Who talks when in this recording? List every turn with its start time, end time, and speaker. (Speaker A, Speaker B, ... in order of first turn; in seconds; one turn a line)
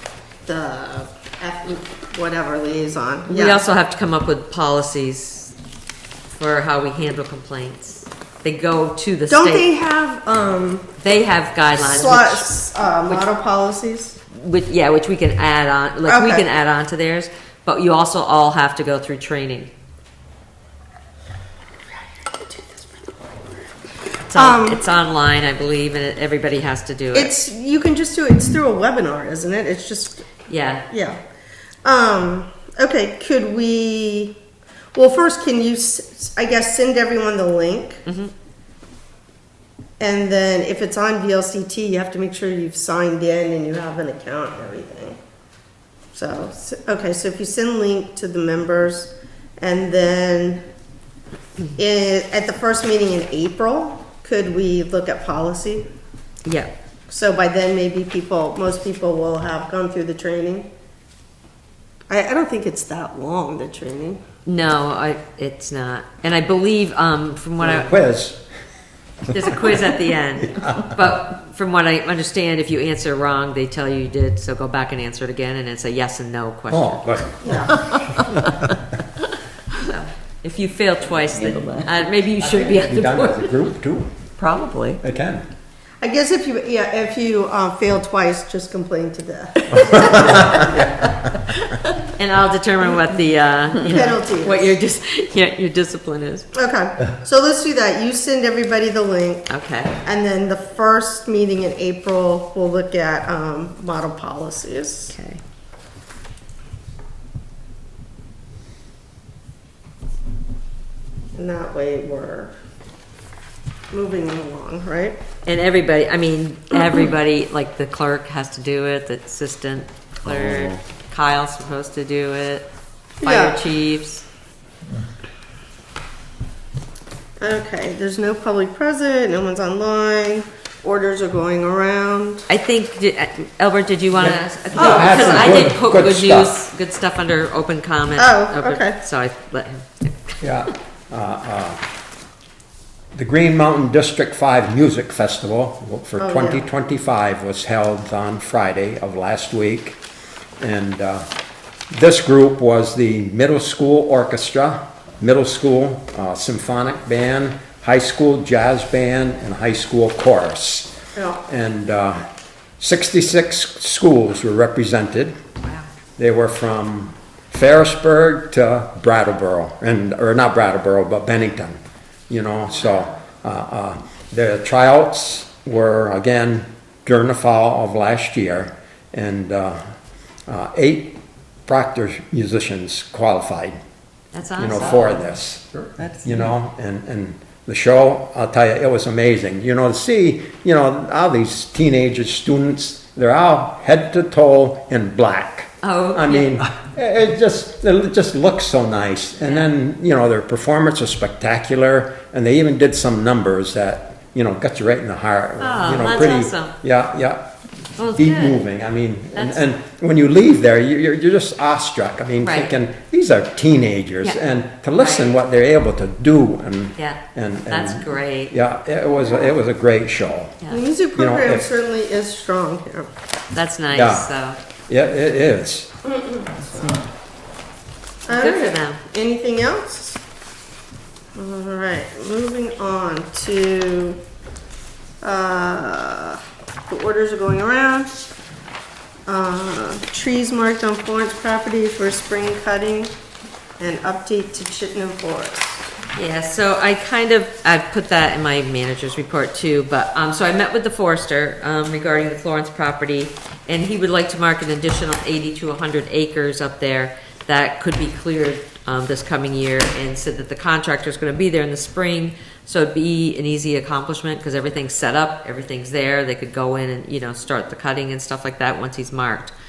Speaker A: 0.5-3.6
Speaker B: 3.3-5.5
Speaker B: 6.3-9.7
Speaker A: 9.3-10.9
Speaker B: 11.0-12.6
Speaker A: 11.8-14.2
Speaker B: 14.3-19.7
Speaker A: 16.1-16.4
Speaker A: 22.1-23.7
Speaker B: 24.3-27.3
Speaker A: 24.3-24.9
Speaker A: 27.1-30.4
Speaker B: 30.5-30.9
Speaker A: 30.9-31.2
Speaker A: 31.9-34.4
Speaker A: 35.0-38.0
Speaker B: 38.0-38.3
Speaker A: 40.0-45.2
Speaker A: 46.1-50.6
Speaker A: 51.8-55.9
Speaker B: 56.5-56.7
Speaker A: 57.1-60.7
Speaker A: 62.1-64.2
Speaker B: 64.5-68.0
Speaker C: 67.7-68.4
Speaker B: 69.3-77.2
Speaker C: 69.3-69.8
Speaker C: 70.4-71.0
Speaker C: 76.7-78.8
Speaker A: 77.4-77.9
Speaker B: 79.8-83.7
Speaker C: 82.4-84.1
Speaker B: 84.4-85.0
Speaker C: 85.0-85.5
Speaker A: 86.0-90.9
Speaker C: 89.7-90.9
Speaker B: 89.9-90.6
Speaker B: 92.1-96.5
Speaker A: 93.8-94.8
Speaker A: 96.5-99.5
Speaker B: 99.5-99.9
Speaker A: 100.0-105.2
Speaker B: 105.1-105.4
Speaker A: 111.3-112.5
Speaker A: 113.9-115.2
Speaker B: 115.5-122.7
Speaker C: 120.3-120.8
Speaker A: 123.2-123.6
Speaker B: 123.2-124.2
Speaker A: 127.4-132.5
Speaker B: 132.5-140.7
Speaker C: 134.2-136.6
Speaker A: 134.8-135.7
Speaker A: 138.2-139.0
Speaker C: 140.4-141.8
Speaker C: 143.2-150.0
Speaker A: 146.2-146.7
Speaker C: 150.6-151.2
Speaker C: 151.9-160.9
Speaker A: 161.2-161.4
Speaker C: 161.5-162.2
Speaker C: 162.8-165.3
Speaker C: 166.2-179.8
Speaker C: 180.5-183.8
Speaker B: 184.3-185.2
Speaker C: 184.6-207.5
Speaker B: 195.8-196.5
Speaker B: 199.4-199.7
Speaker B: 205.6-206.7
Speaker B: 208.0-208.6
Speaker C: 208.1-220.6
Speaker B: 209.3-209.7
Speaker B: 212.4-212.8
Speaker B: 215.0-215.3
Speaker B: 217.0-218.6
Speaker A: 220.7-223.1
Speaker C: 221.2-221.7
Speaker B: 223.5-224.6
Speaker C: 223.9-224.3
Speaker C: 224.9-225.9
Speaker A: 226.2-227.0
Speaker A: 228.3-230.2
Speaker B: 228.3-229.0
Speaker A: 231.4-234.2
Speaker A: 235.2-238.1
Speaker A: 239.3-243.1
Speaker A: 243.8-245.9
Speaker B: 246.2-269.5